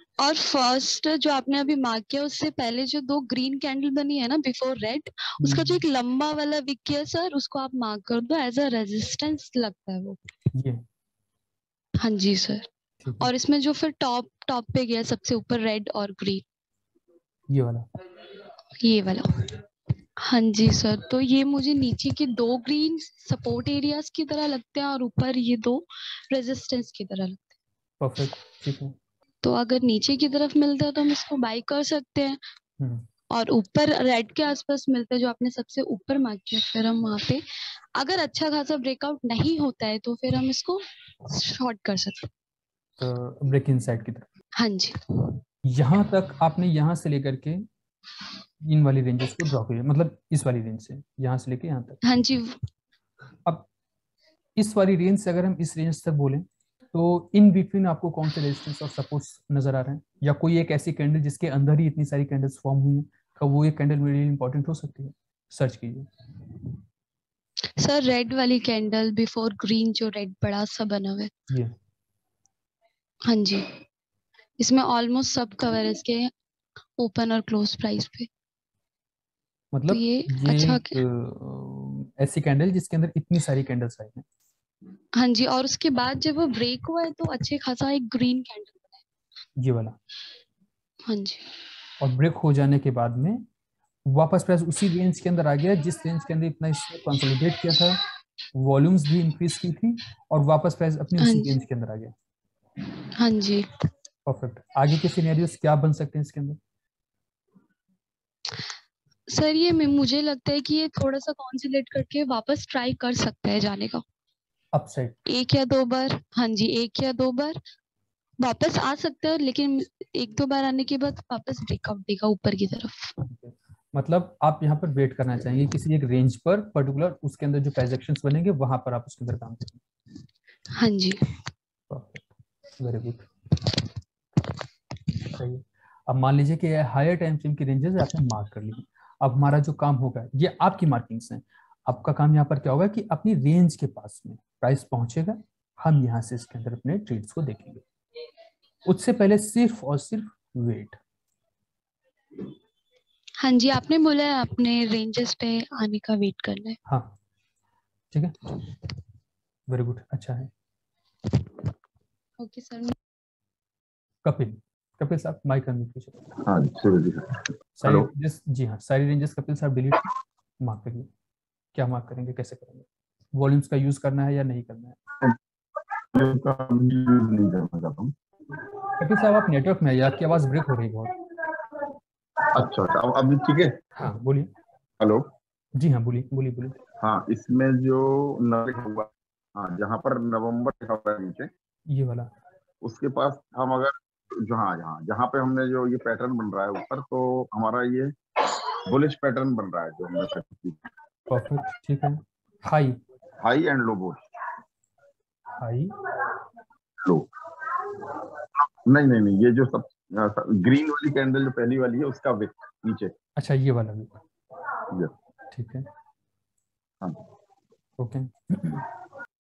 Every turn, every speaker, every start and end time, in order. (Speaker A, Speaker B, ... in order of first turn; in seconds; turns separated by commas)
Speaker A: 0.2-10.2, Speaker B: 5.4-5.8, Speaker B: 10.5-10.8, Speaker A: 12.0-12.7, Speaker B: 13.0-13.3, Speaker A: 13.2-16.4, Speaker B: 17.5-17.9, Speaker A: 18.8-19.6, Speaker A: 20.2-27.5, Speaker B: 28.0-28.9, Speaker A: 29.4-32.4, Speaker B: 32.8-33.0, Speaker A: 33.3-37.4, Speaker A: 38.0-42.3, Speaker B: 43.0-44.3, Speaker A: 44.6-45.3, Speaker B: 45.6-47.6, Speaker B: 48.6-52.0, Speaker A: 52.0-52.6, Speaker B: 54.6-66.1, Speaker A: 67.8-71.3, Speaker A: 73.3-73.8, Speaker A: 74.6-76.3, Speaker A: 77.0-78.3, Speaker B: 79.7-84.2, Speaker A: 79.9-81.0, Speaker A: 85.2-89.0, Speaker B: 89.6-90.0, Speaker A: 91.1-91.5, Speaker B: 92.0-93.4, Speaker B: 94.0-98.0, Speaker B: 98.5-102.1, Speaker A: 101.2-101.5, Speaker A: 103.2-103.7, Speaker B: 104.2-106.6, Speaker A: 109.3-114.0, Speaker B: 114.7-115.2, Speaker A: 115.3-117.6, Speaker A: 118.4-123.1, Speaker B: 123.2-129.8, Speaker A: 130.8-131.3, Speaker B: 131.9-133.3, Speaker B: 135.2-147.8, Speaker B: 148.8-151.0, Speaker A: 153.4-156.8, Speaker B: 156.9-157.2, Speaker B: 158.1-158.5, Speaker B: 159.7-160.5, Speaker A: 162.4-162.9, Speaker B: 164.2-166.2, Speaker C: 166.4-168.1, Speaker B: 167.8-170.1, Speaker B: 170.6-171.1, Speaker B: 171.7-175.0, Speaker C: 176.1-178.1, Speaker B: 179.0-181.1, Speaker C: 182.5-183.9, Speaker B: 183.9-184.5, Speaker C: 185.0-185.3, Speaker B: 185.8-186.8, Speaker C: 187.0-191.5, Speaker B: 191.9-192.3, Speaker C: 192.8-200.8, Speaker B: 201.3-203.0, Speaker C: 203.4-204.2, Speaker B: 205.6-205.9, Speaker C: 208.8-213.1, Speaker B: 213.3-214.2, Speaker B: 215.5-215.9, Speaker B: 218.0-218.8